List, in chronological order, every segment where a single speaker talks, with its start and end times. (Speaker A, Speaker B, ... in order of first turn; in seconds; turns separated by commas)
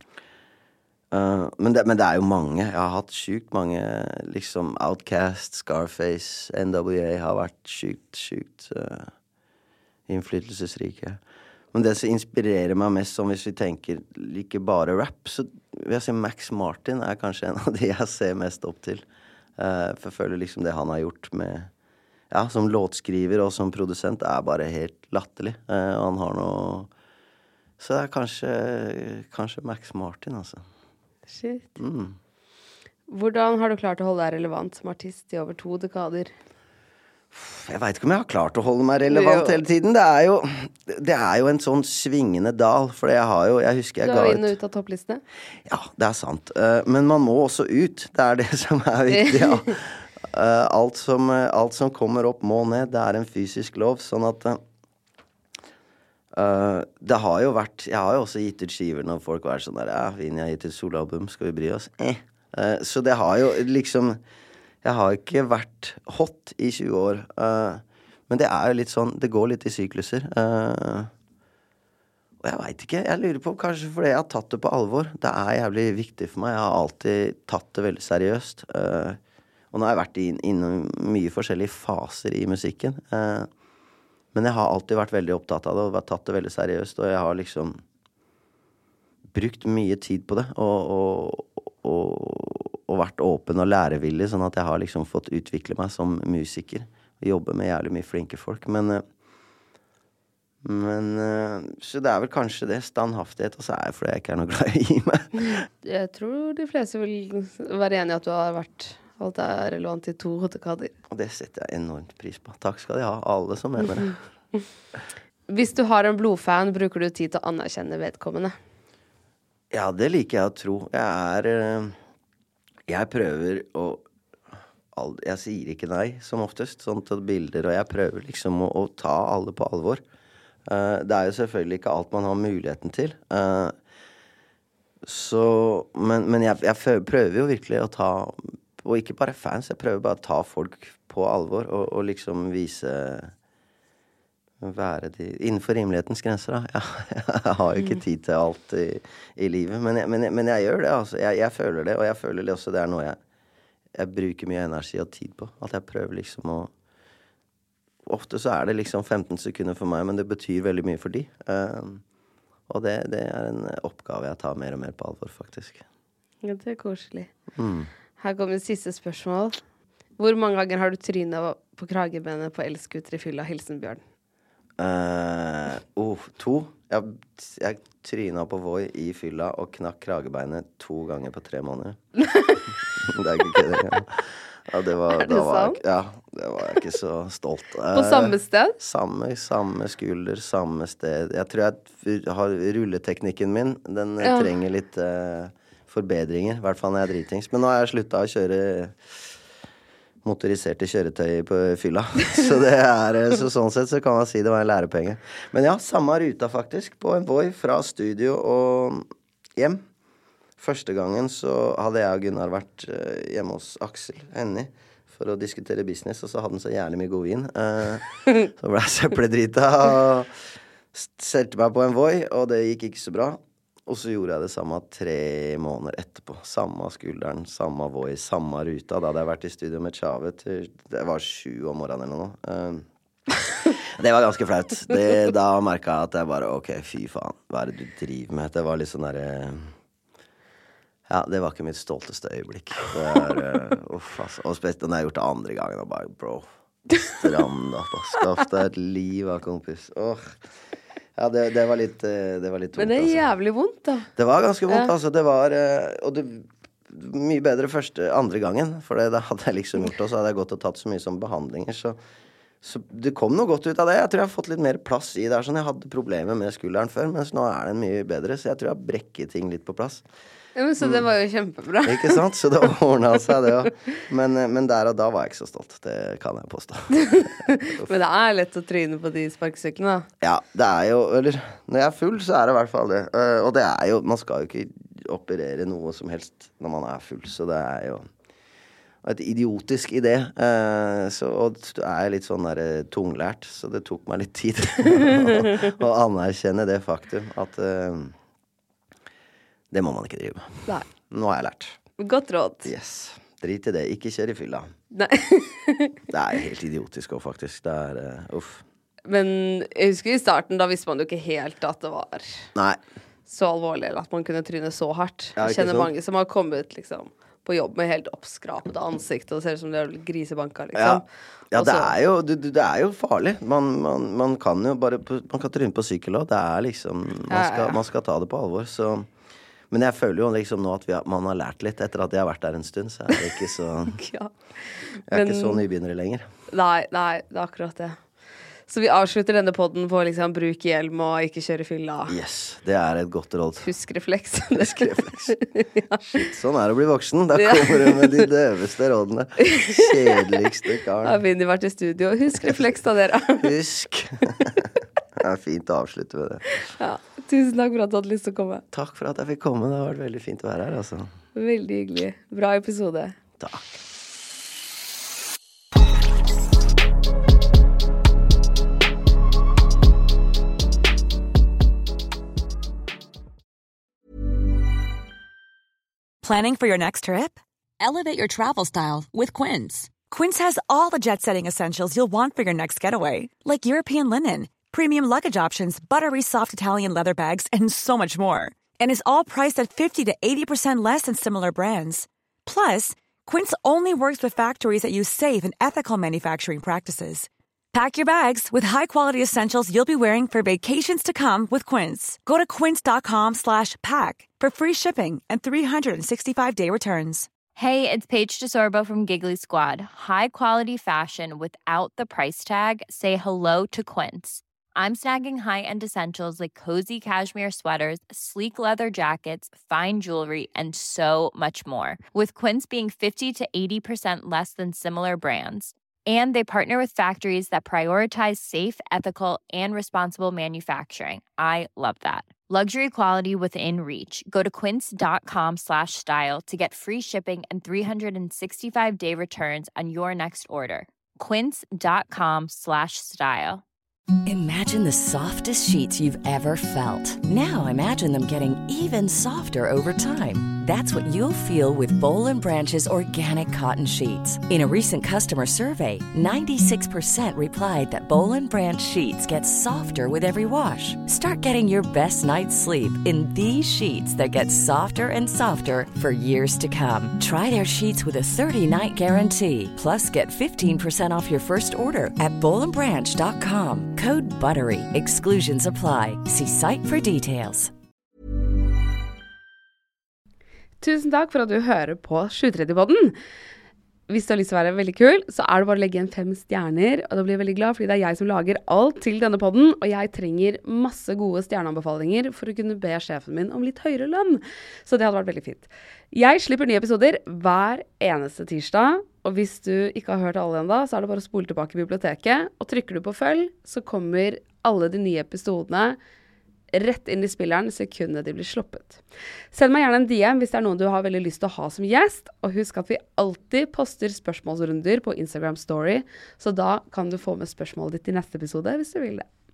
Speaker A: 1.1-9.1, Speaker A: 10.1-11.2, Speaker A: 11.7-19.0, Speaker A: 19.6-21.7, Speaker A: 22.3-26.9, Speaker A: 27.8-30.6, Speaker B: 31.3-31.8, Speaker A: 31.8-32.2, Speaker B: 33.1-36.3, Speaker A: 37.3-44.5, Speaker B: 39.1-39.6, Speaker B: 44.0-45.2, Speaker A: 45.6-54.6, Speaker B: 49.1-49.7, Speaker A: 56.3-64.2, Speaker A: 64.8-71.1, Speaker A: 72.4-79.2, Speaker A: 79.7-83.5, Speaker A: 84.3-87.8, Speaker A: 89.3-99.0, Speaker A: 100.6-105.6, Speaker B: 105.6-110.9, Speaker A: 111.1-114.2, Speaker B: 115.5-118.5, Speaker A: 119.7-122.0, Speaker A: 122.9-124.0, Speaker A: 124.9-130.0, Speaker A: 130.7-133.7, Speaker A: 135.0-143.3, Speaker A: 144.6-153.2, Speaker A: 153.9-156.7, Speaker A: 158.1-162.0, Speaker A: 162.7-165.8, Speaker B: 166.4-167.3, Speaker A: 167.5-167.9, Speaker B: 168.2-169.6, Speaker B: 170.2-174.0, Speaker A: 174.8-182.0, Speaker B: 182.3-182.6, Speaker A: 183.0-199.2, Speaker B: 185.1-185.8, Speaker B: 187.9-188.8, Speaker B: 194.2-194.5, Speaker A: 200.2-209.8, Speaker A: 210.6-220.3, Speaker A: 220.9-232.8, Speaker A: 233.7-239.7, Speaker A: 241.1-250.4, Speaker B: 247.0-247.3, Speaker A: 251.2-253.2, Speaker B: 252.8-254.1, Speaker A: 254.2-262.0, Speaker A: 262.6-270.0, Speaker B: 270.6-272.2, Speaker A: 270.8-271.1, Speaker A: 271.8-277.9, Speaker B: 277.1-280.1, Speaker A: 280.2-288.1, Speaker A: 289.0-298.1, Speaker B: 295.2-295.5, Speaker A: 299.7-301.8, Speaker B: 302.0-302.7, Speaker A: 302.6-304.7, Speaker B: 304.9-306.0, Speaker A: 306.1-308.6, Speaker B: 309.1-312.4, Speaker B: 313.3-321.9, Speaker A: 315.4-315.9, Speaker A: 320.7-329.1, Speaker B: 327.3-327.8, Speaker A: 329.7-334.0, Speaker B: 334.0-334.3, Speaker B: 334.9-335.6, Speaker A: 335.1-336.3, Speaker B: 336.5-338.0, Speaker B: 338.7-342.1, Speaker A: 342.1-343.7, Speaker B: 343.6-346.0, Speaker A: 344.5-345.4, Speaker A: 346.0-351.2, Speaker B: 347.4-348.3, Speaker B: 349.4-350.2, Speaker B: 351.0-353.5, Speaker A: 352.4-352.7, Speaker A: 353.4-356.4, Speaker B: 356.6-358.6, Speaker A: 358.7-361.1, Speaker B: 361.3-363.1, Speaker A: 363.4-363.7, Speaker C: 376.2-407.3, Speaker D: 407.5-443.6, Speaker E: 444.2-477.7, Speaker B: 480.8-483.1, Speaker B: 484.1-506.0, Speaker B: 506.7-509.0, Speaker B: 509.5-519.2